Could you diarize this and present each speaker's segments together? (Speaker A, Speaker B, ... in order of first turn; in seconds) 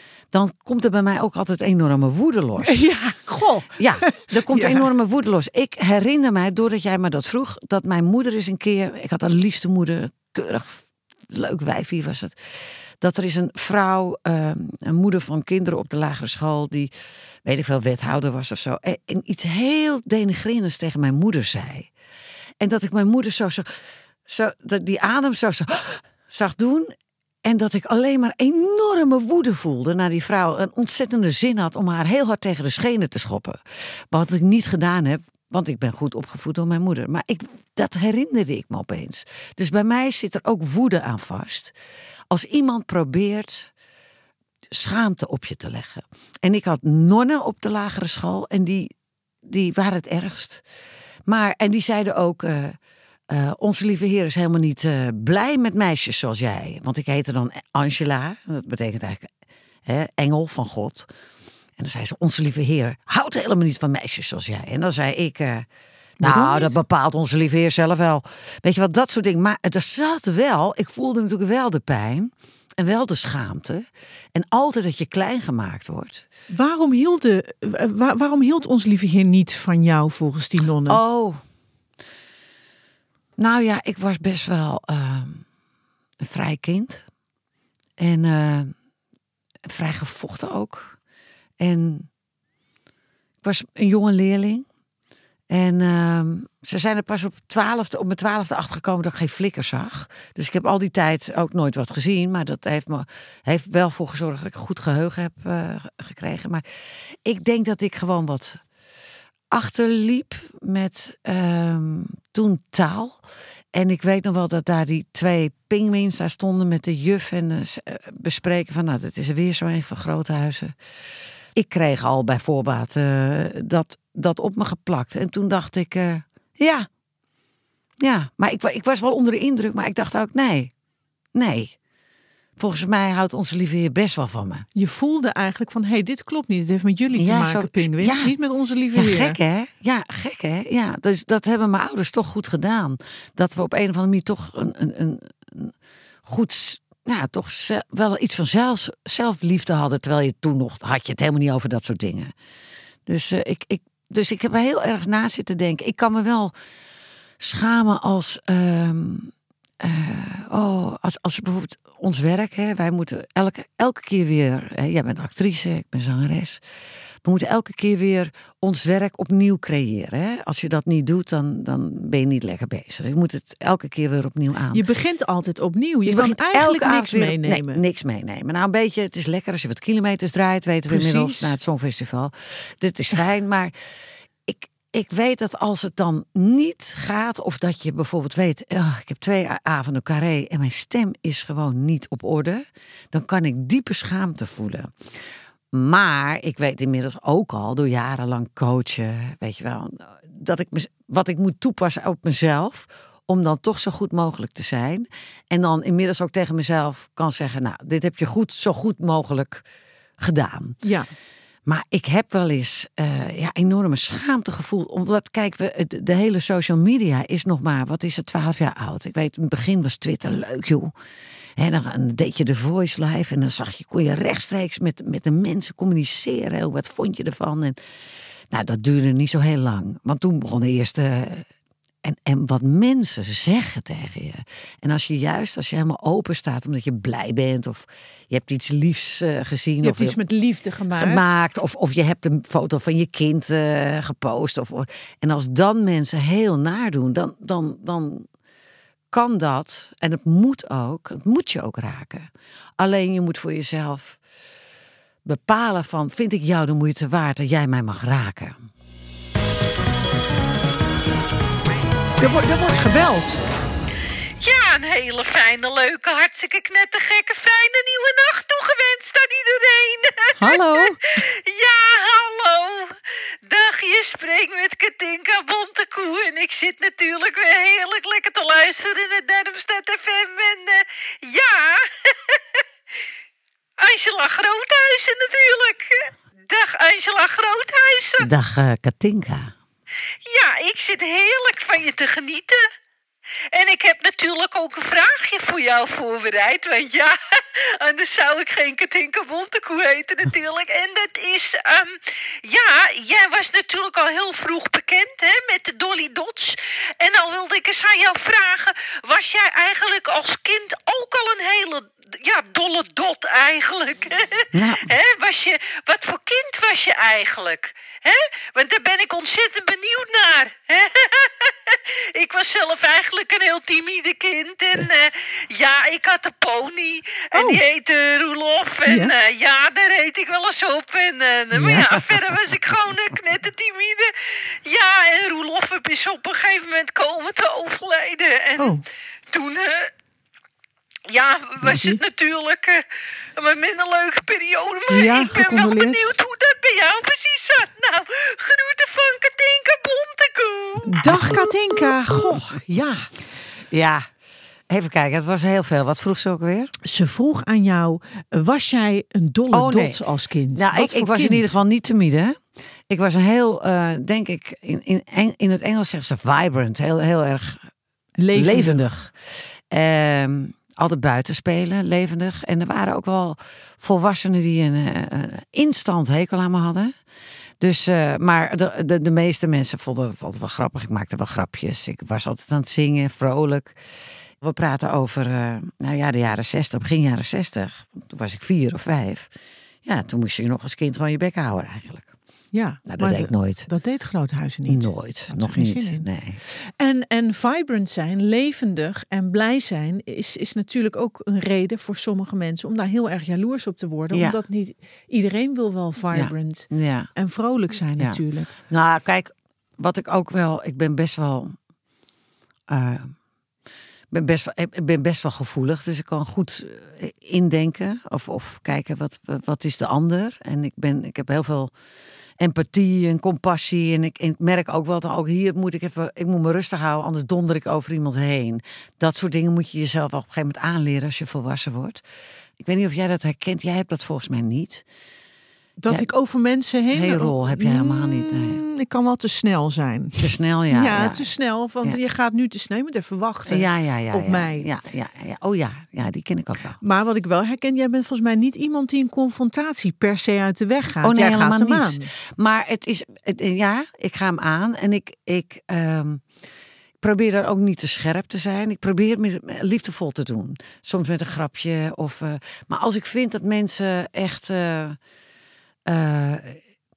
Speaker A: 0.3-2.8, 3.8-16.9, 17.4-21.9, 22.6-23.7, 24.3-26.9, 27.4-41.7, 42.3-43.7, 44.7-48.9, 49.4-50.6, 51.2-52.8, 53.3-59.3, 59.9-61.1, 61.8-65.7, 66.2-76.2, 80.8-81.4, 83.4-85.5, 86.2-87.0, 88.0-88.7, 89.7-91.0, 91.6-92.1, 93.4-94.7, 95.5-106.6, 107.2-108.6, 109.5-113.2, 113.7-120.7, 121.5-126.9, 128.0-130.7, 131.3-131.7, 132.6-134.7, 137.1-138.3, 138.9-145.7, 146.2-152.3, 153.1-156.5, 157.4-166.6, 167.2-174.8, 176.1-183.7, 184.5-195.2, 195.7-209.6, 210.2-210.8, 211.7-220.9, 221.6-227.8, 228.5-231.5, 232.0-240.2, 240.9-248.3, 249.1-254.2, 255.2-258.6, 288.2-289.5, 314.5-314.9, 351.1-351.4, 353.7-354.1, 354.7-356.7, 359.5-367.7, 368.3-369.1, 369.7-376.9, 377.6-383.8, 384.4-389.3, 389.8-392.1, 392.9-393.7, 394.7-396.4, 404.1-404.4, 406.1-407.1, 408.0-411.6, 412.7-413.1, 414.1-421.7, 422.4-432.0, 432.6-434.8, 436.9-438.6, 440.2-441.3, 443.4-446.8, 451.0-456.2, 457.0-465.0, 465.9-466.6
Speaker B: 2.6-4.9, 66.2-66.8, 76.5-81.0, 134.7-139.4, 174.7-177.8, 180.9-181.5, 210.8-211.1, 239.8-241.4, 262.2-263.4, 270.4-271.0, 327.3-327.6, 328.8-329.1, 331.5-332.0, 338.6-338.8, 341.6-342.0, 344.9-346.1, 350.9-353.1, 356.9-361.5, 368.2-368.9, 392.5-408.5, 435.8-444.7, 446.8-452.1
Speaker C: 264.4-282.4, 283.8-288.3, 290.3-292.6, 293.5-334.1, 334.6-339.9, 341.1-342.8, 343.4-351.4